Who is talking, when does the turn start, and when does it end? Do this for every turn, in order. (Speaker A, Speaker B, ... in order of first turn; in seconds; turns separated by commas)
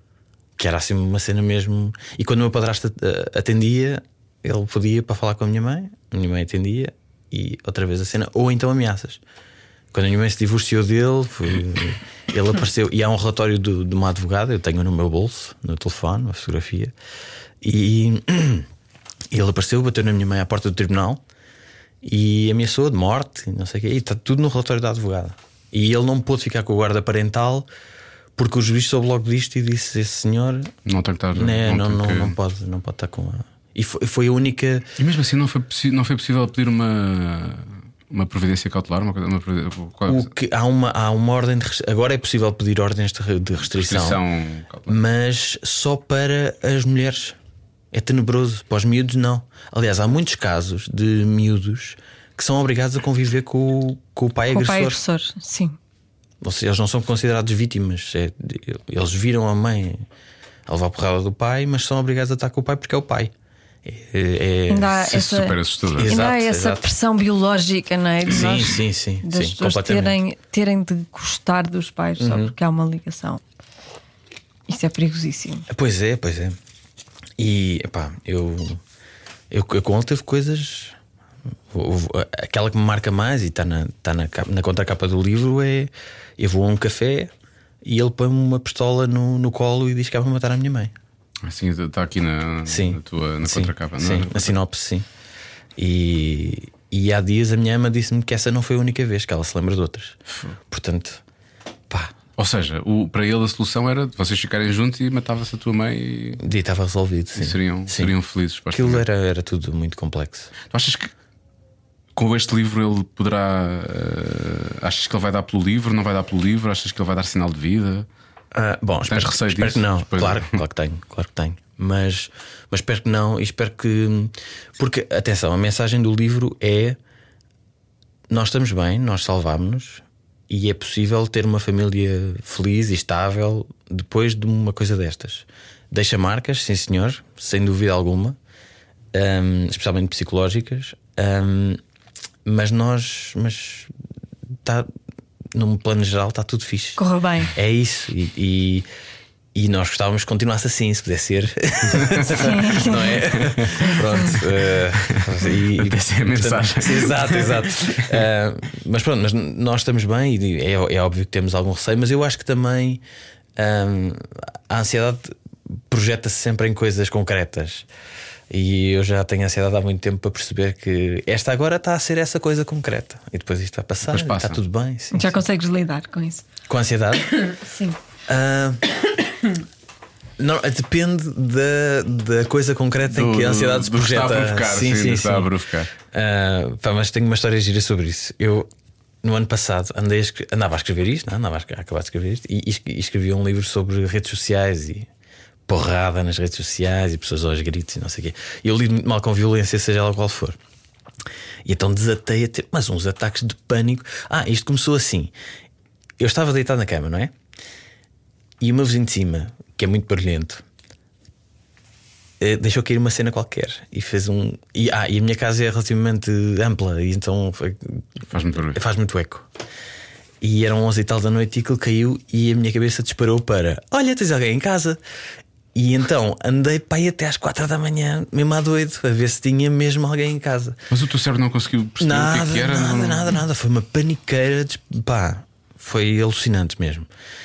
Speaker A: 0.6-9.2, Speaker A: 9.9-16.9, Speaker A: 17.6-18.7, Speaker A: 19.3-21.2, Speaker A: 22.0-27.7, Speaker A: 28.4-30.7, Speaker B: 30.9-32.4, Speaker A: 31.3-34.9, Speaker B: 35.0-40.3, Speaker A: 40.1-44.2, Speaker B: 43.8-45.0, Speaker A: 44.9-47.4, Speaker A: 47.9-55.0, Speaker C: 54.5-55.8, Speaker A: 56.4-60.0, Speaker A: 60.7-63.3, Speaker A: 63.8-65.1, Speaker C: 64.7-73.4, Speaker B: 65.0-66.2, Speaker A: 66.0-66.8, Speaker A: 68.3-70.2, Speaker A: 72.2-72.5, Speaker C: 74.7-75.7, Speaker A: 75.7-76.5, Speaker A: 77.4-78.8, Speaker A: 79.5-81.0, Speaker A: 81.7-87.3, Speaker A: 87.8-90.9, Speaker B: 91.4-94.5, Speaker A: 92.7-95.0, Speaker A: 95.8-100.2, Speaker A: 100.7-101.2, Speaker A: 101.9-102.2, Speaker B: 102.4-106.4, Speaker A: 106.4-108.1, Speaker B: 107.3-109.0, Speaker A: 108.7-110.5, Speaker B: 110.7-111.1, Speaker B: 112.2-118.1, Speaker A: 118.5-127.0, Speaker B: 119.1-120.5, Speaker A: 128.3-138.4, Speaker A: 139.1-141.8, Speaker A: 142.4-143.9, Speaker A: 145.5-147.0, Speaker C: 147.0-147.5, Speaker A: 147.5-148.8, Speaker A: 149.5-163.0, Speaker B: 151.9-152.5, Speaker C: 152.3-153.3, Speaker B: 153.2-158.2, Speaker C: 153.8-154.3, Speaker A: 163.6-165.3, Speaker A: 165.9-167.9, Speaker A: 168.5-175.4, Speaker B: 174.1-174.6, Speaker C: 175.1-176.5, Speaker A: 176.7-177.5, Speaker C: 177.5-178.0, Speaker A: 178.3-178.8, Speaker A: 180.4-185.5, Speaker B: 183.1-185.9, Speaker A: 186.1-188.7, Speaker A: 189.2-195.1, Speaker A: 195.7-200.6, Speaker A: 201.6-205.3, Speaker A: 206.2-207.3, Speaker A: 208.6-210.6, Speaker A: 212.4-218.1, Speaker B: 218.3-218.8, Speaker A: 218.7-219.5, Speaker A: 220.4-225.0, Speaker A: 225.7-230.8, Speaker B: 230.9-233.4, Speaker A: 232.0-237.1